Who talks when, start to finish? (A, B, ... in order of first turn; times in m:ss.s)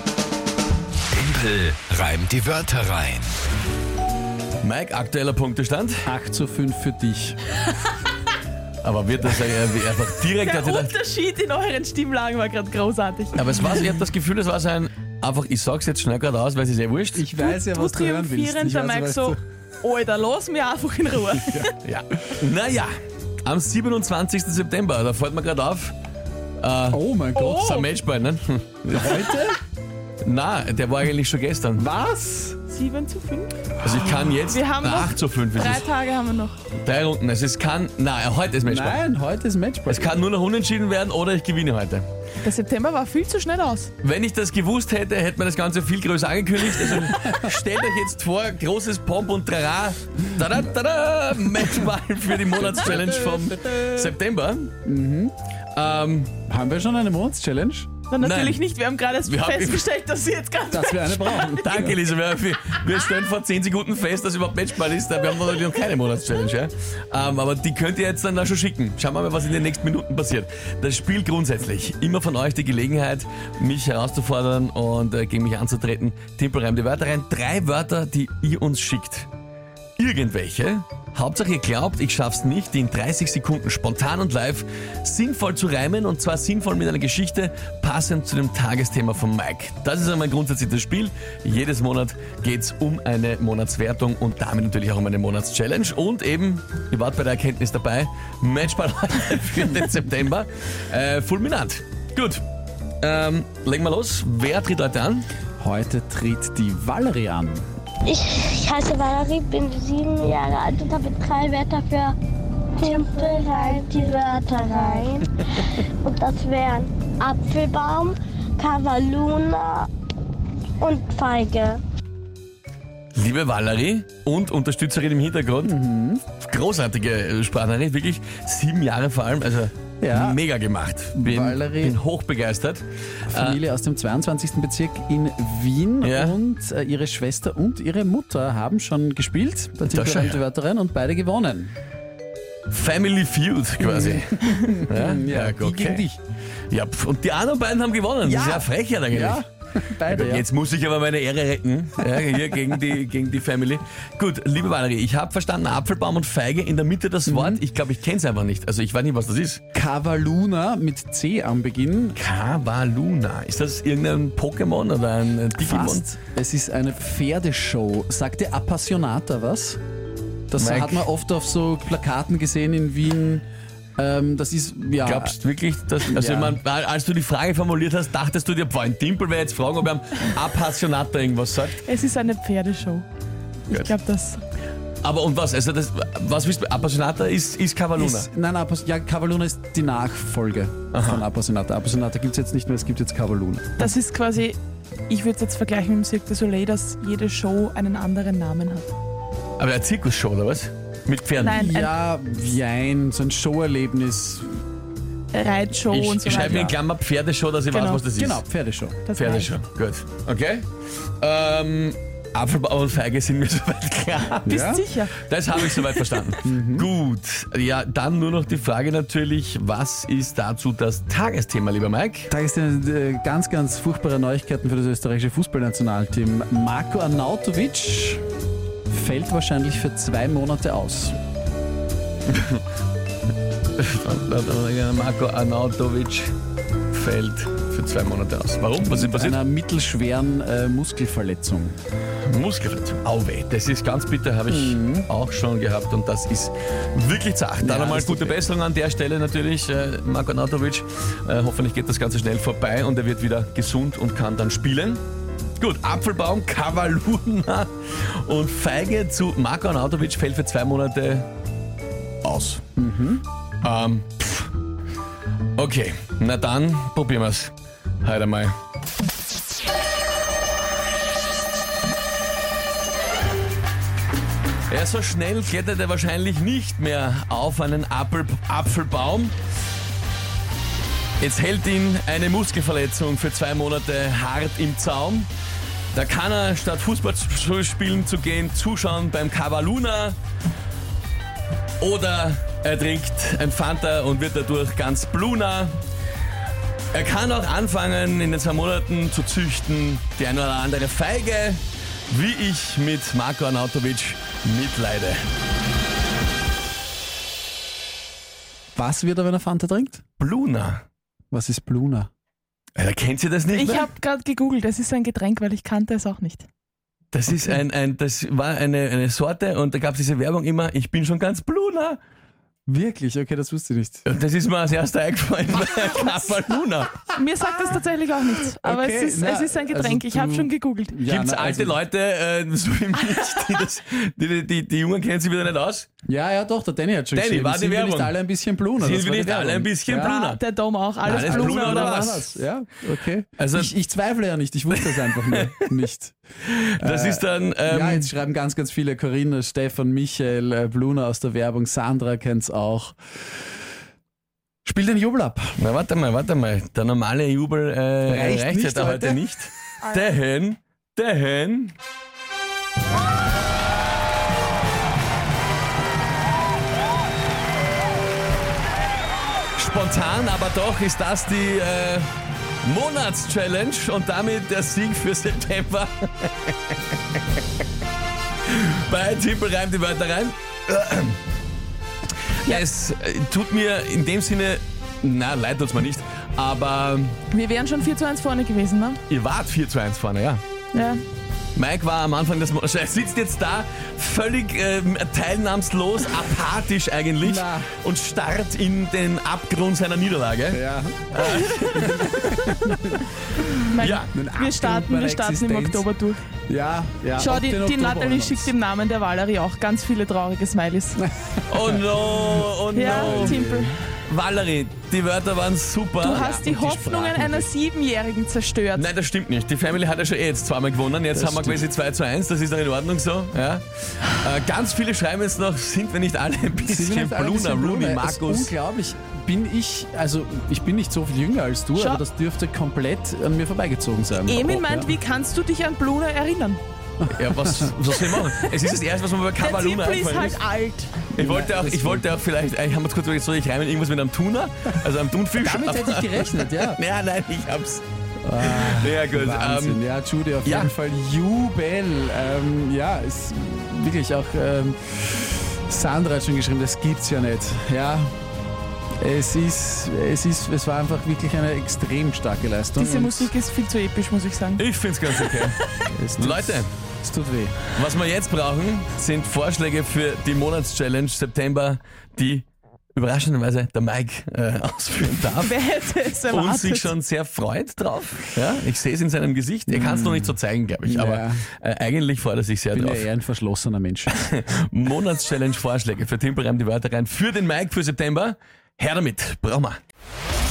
0:01.1-0:03.3 A
0:04.6-0:06.1 B
0:06.1-0:07.4 C
0:08.8-0:11.0 B
0:10.4-0:13.4 D
0:13.4-0:17.3 B
0:17.1-0:19.4 C
0:17.4-0:21.7 D
0:21.8-0:22.9 B
0:23.4-0:26.0 B
0:26.6-0:29.4 B
0:26.9-0:27.8 C
0:27.4-0:27.9 D
0:28.9-0:29.6 C
0:30.2-0:31.9 B
0:31.8-0:32.6 C
0:32.7-0:33.6 D
0:33.8-0:35.8 B
0:34.4-0:36.6 D
0:36.8-0:39.0 B
0:38.6-0:40.2 C
0:39.9-0:42.1 B
0:42.4-0:43.9 D
0:44.0-0:54.7 B
0:47.0-0:47.5 C
0:53.3-0:54.0 C
0:54.8-0:55.3 C
0:55.7-0:56.3 B
0:56.5-0:57.9 C
0:58.1-1:01.7 D
0:58.2-0:58.6 B
0:59.2-0:59.9 B
1:00.7-1:02.0 C
1:01.6-1:19.3 B
1:20.0-1:42.4 B
1:43.0-1:45.3 B
1:45.6-1:47.7 C
1:48.1-1:52.2 E
1:52.8-1:55.4 E
1:56.0-1:59.9 E
2:00.8-2:01.8 E
2:03.2-2:05.8 B
2:05.6-2:06.2 C
2:06.4-2:13.6 B
2:10.0-2:10.4 C
2:11.2-2:12.0 C
2:13.3-2:21.7 C
2:16.0-2:16.4 B
2:19.9-2:20.4 B
2:22.7-2:26.1 B
2:23.8-2:26.2 C
2:26.7-2:29.4 B
2:28.2-2:30.5 C
2:30.1-2:39.6 B
2:32.1-2:32.6 C
2:37.3-2:37.6 C
2:39.7-2:42.2 C
2:42.2-2:46.1 B
2:45.6-2:49.8 C
2:50.5-2:53.4 C
2:50.6-2:51.1 B
2:54.0-2:55.4 C
2:55.0-3:01.8 B
2:56.0-2:56.6 C
3:01.8-3:03.1 D
3:03.7-3:04.4 D
3:05.0-3:08.3 B
3:08.0-3:13.9 C
3:10.9-3:11.2 B
3:13.8-3:14.6 D
3:15.1-3:18.9 D
3:19.6-3:21.7 B
3:21.4-3:21.9 D
3:21.6-3:24.5 C
3:25.3-3:26.8 D
3:25.9-3:28.4 B
3:26.4-3:26.8 C
3:27.7-3:28.3 D
3:28.1-3:29.0 C
3:29.0-3:29.5 D
3:29.1-3:30.7 B
3:31.2-3:42.3 B
3:34.5-3:34.9 C
3:34.6-3:35.2 D
3:36.4-3:36.9 C
3:42.3-3:48.2 C
3:48.9-3:51.2 C
3:52.3-3:52.6 B
3:53.8-3:56.3 B
3:56.9-3:59.4 B
3:58.8-4:01.8 C
4:02.3-4:15.0 B
4:04.5-4:05.1 C
4:07.6-4:08.4 C
4:15.6-4:21.3 B
4:22.2-4:22.6 B
4:22.8-4:23.2 C
4:23.6-4:24.5 B
4:25.6-4:28.6 B
4:34.7-4:39.4 B
4:41.2-4:45.3 B
4:45.9-4:50.2 B
4:51.8-4:55.8 B
4:56.9-5:05.3 B
5:08.8-5:10.0 C
5:10.2-5:10.8 B
5:11.3-5:12.1 C
5:12.8-5:13.9 B
5:13.6-5:16.5 D
5:17.1-5:22.0 B
5:22.7-5:24.1 C
5:24.0-5:27.1 B
5:27.1-5:31.0 D
5:28.5-5:31.8 C
5:31.0-5:35.9 B
5:36.1-5:40.2 C
5:37.1-5:38.2 B
5:38.8-5:40.4 B
5:39.9-5:42.2 D
5:41.0-5:42.3 B
5:41.0-5:46.2 C
5:43.4-5:43.7 B
5:44.7-5:45.7 B
5:46.5-5:48.1 B
5:46.8-5:53.0 C
5:54.6-5:55.5 C
5:55.6-6:01.8 B
5:58.1-5:59.2 C
6:09.6-6:12.1 B
6:12.6-6:17.4 B
6:18.4-6:21.2 B
6:22.4-6:27.2 B
6:27.3-6:29.0 D
6:29.1-6:30.4 B
6:30.7-6:31.0 D
6:31.6-6:42.0 B
6:37.2-6:37.7 C
6:40.5-6:45.9 C
6:41.4-6:42.8 D
6:43.7-6:46.2 D
6:43.8-6:44.1 B
6:46.5-6:48.5 C
6:47.2-6:51.0 D
6:51.0-6:53.8 C
6:51.5-6:53.4 B
6:52.8-6:53.8 D
6:54.0-6:56.4 B
6:56.0-6:58.9 D
6:56.0-6:57.5 C
6:58.7-7:08.5 B
7:01.1-7:01.6 C
7:06.6-7:15.0 C
7:11.8-7:12.0 D
7:14.2-7:16.6 D
7:17.0-7:17.8 C
7:17.1-7:20.4 B
7:19.4-7:21.1 D
7:21.1-7:22.1 C
7:21.1-7:27.8 B
7:25.4-7:26.8 C
7:28.2-7:38.1 C
7:28.4-7:29.8 B
7:30.4-7:30.7 B
7:39.0-7:43.3 C
7:42.8-7:44.6 D
7:44.6-7:45.6 B
7:45.8-7:47.6 C
7:46.2-7:46.7 B
7:47.7-7:55.6 B
7:55.4-7:56.9 D
7:56.3-8:03.1 B
7:59.7-8:01.5 C
8:02.7-8:04.1 C
8:04.1-8:09.8 B